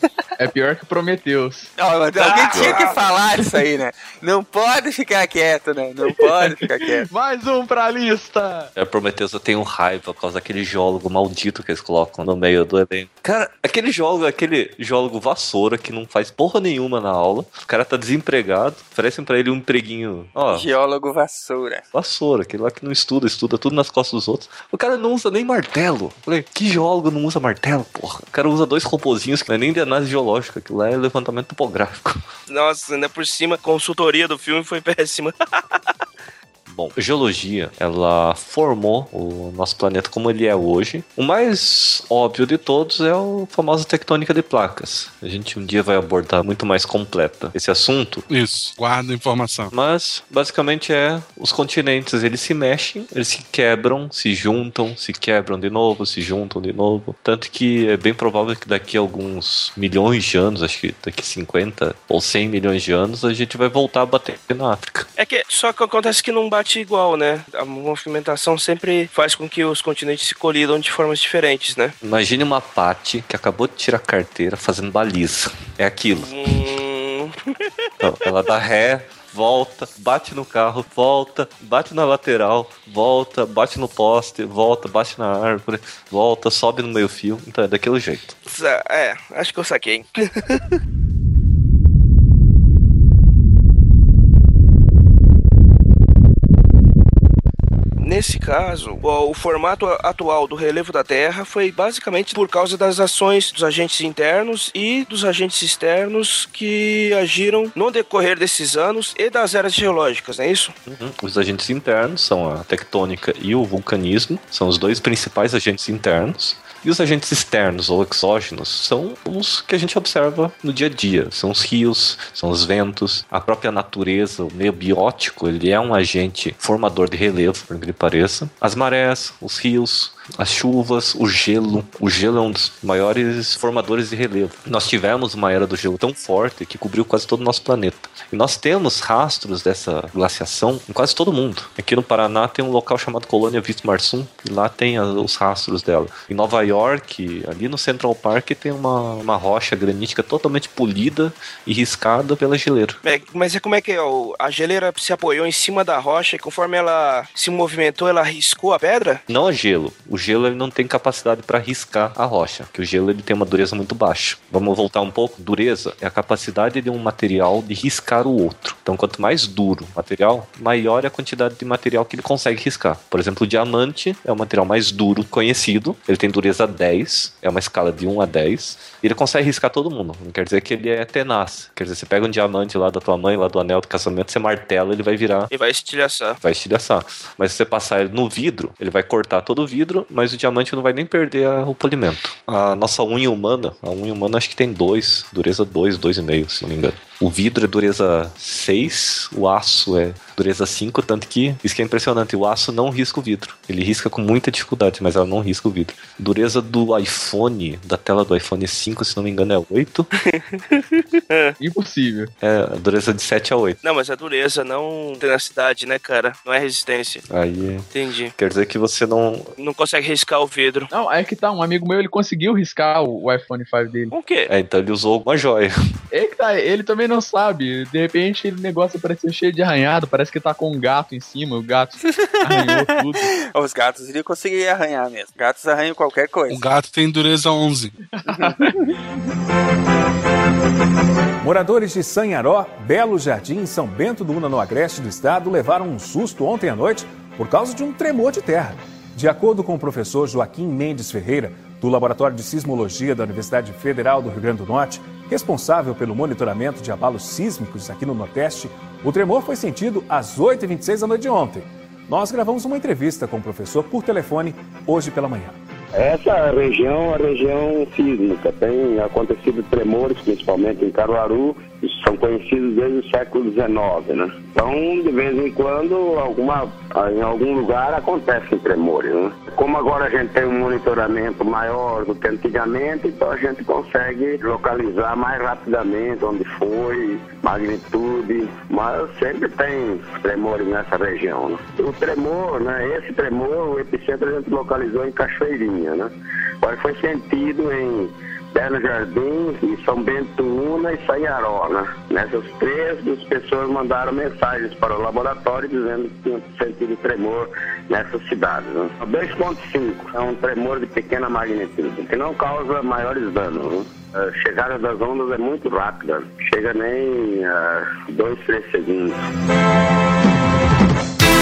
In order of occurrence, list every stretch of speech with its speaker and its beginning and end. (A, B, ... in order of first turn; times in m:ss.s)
0:00.4-0:01.7 A
0:01.8-0:07.1 B
0:02.2-0:02.9 C
0:02.5-0:02.8 A
0:06.3-0:08.7 A
0:08.8-0:20.7 D
0:20.5-0:21.8 B
0:21.9-0:32.2 D
0:32.5-0:35.9 C
0:36.7-0:48.2 D
0:48.3-0:49.7 E
0:49.7-1:05.1 D
1:05.2-1:11.9 C
1:12.0-1:16.4 D
1:16.2-1:17.7 C
1:18.0-1:28.3 D
1:28.4-1:30.7 C
1:38.0-1:50.7 C
1:50.8-2:33.0 D
2:33.0-2:39.2 C
2:39.3-3:05.5 D
3:05.5-3:06.4 C
3:06.4-3:30.1 D
3:30.3-3:31.5 C
3:31.6-3:32.3 A
3:32.4-3:33.8 D
3:33.8-3:37.2 C
3:37.3-3:39.5 D
3:37.9-3:38.3 C
3:39.6-3:40.9 C
3:40.9-3:44.1 A
3:44.1-3:44.5 C
3:44.5-3:45.7 D
3:46.1-3:53.3 A
3:52.1-3:56.6 B
3:56.5-3:58.0 E
3:58.1-3:58.7 A
3:58.3-3:58.9 B
4:01.4-4:25.6 F
4:25.9-4:56.1 G
4:56.6-5:19.2 G